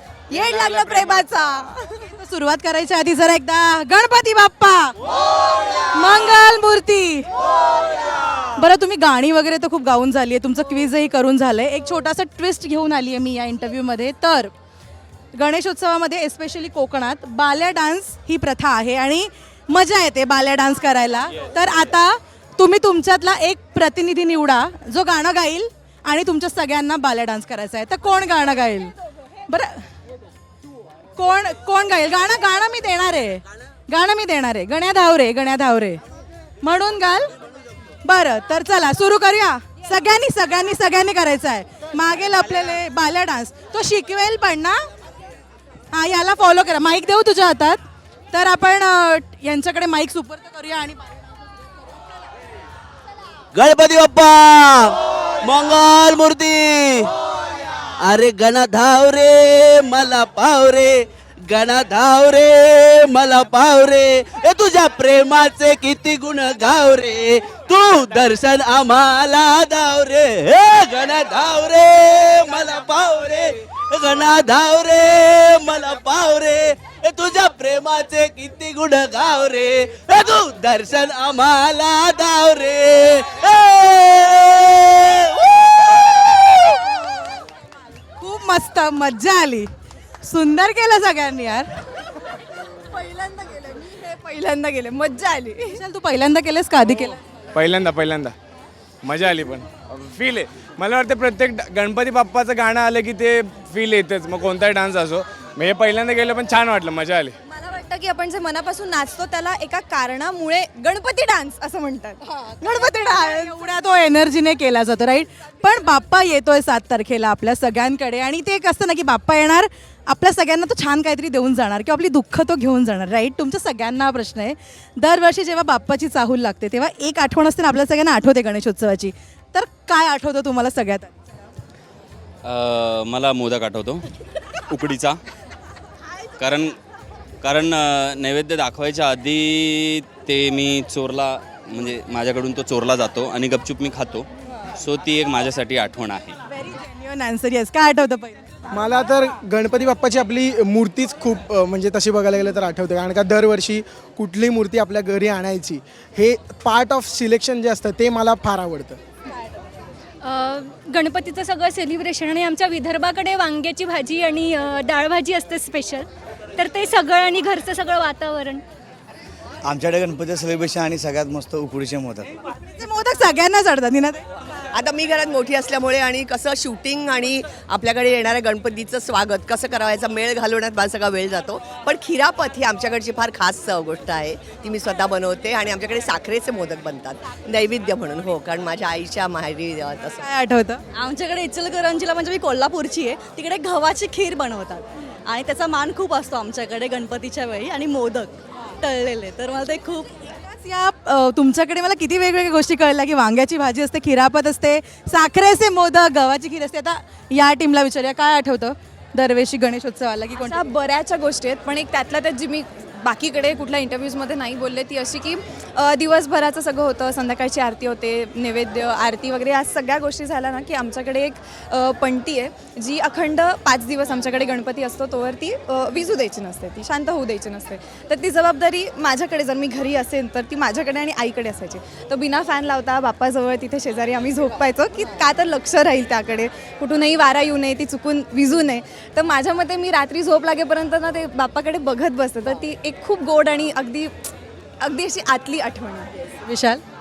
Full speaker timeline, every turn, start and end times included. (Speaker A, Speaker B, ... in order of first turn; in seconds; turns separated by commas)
Speaker A: 0.3-5.0, Speaker B: 0.3-1.2, Speaker A: 5.8-7.3, Speaker A: 8.5-14.5, Speaker A: 15.3-28.9, Speaker A: 29.5-29.8, Speaker A: 31.2-36.0, Speaker A: 36.6-37.3, Speaker A: 38.0-44.8, Speaker A: 45.9-47.8, Speaker A: 48.3-51.2, Speaker C: 53.5-57.1, Speaker C: 58.0-61.0, Speaker C: 61.5-86.8, Speaker A: 88.2-89.7, Speaker A: 90.2-91.7, Speaker B: 92.8-95.8, Speaker A: 95.7-97.2, Speaker D: 97.5-98.3, Speaker D: 99.0-107.3, Speaker B: 107.5-113.3, Speaker A: 112.6-131.1, Speaker E: 132.4-134.1, Speaker E: 134.7-135.2, Speaker E: 136.4-136.8, Speaker E: 137.4-146.4, Speaker A: 146.5-148.4, Speaker F: 148.7-159.0, Speaker G: 160.2-166.1, Speaker G: 166.6-168.6, Speaker H: 169.8-172.1, Speaker A: 172.6-174.2, Speaker I: 174.7-190.2, Speaker A: 190.2-190.8, Speaker J: 190.9-200.1, Speaker A: 200.4-210.7, Speaker B: 210.4-246.1, Speaker A: 246.5-246.8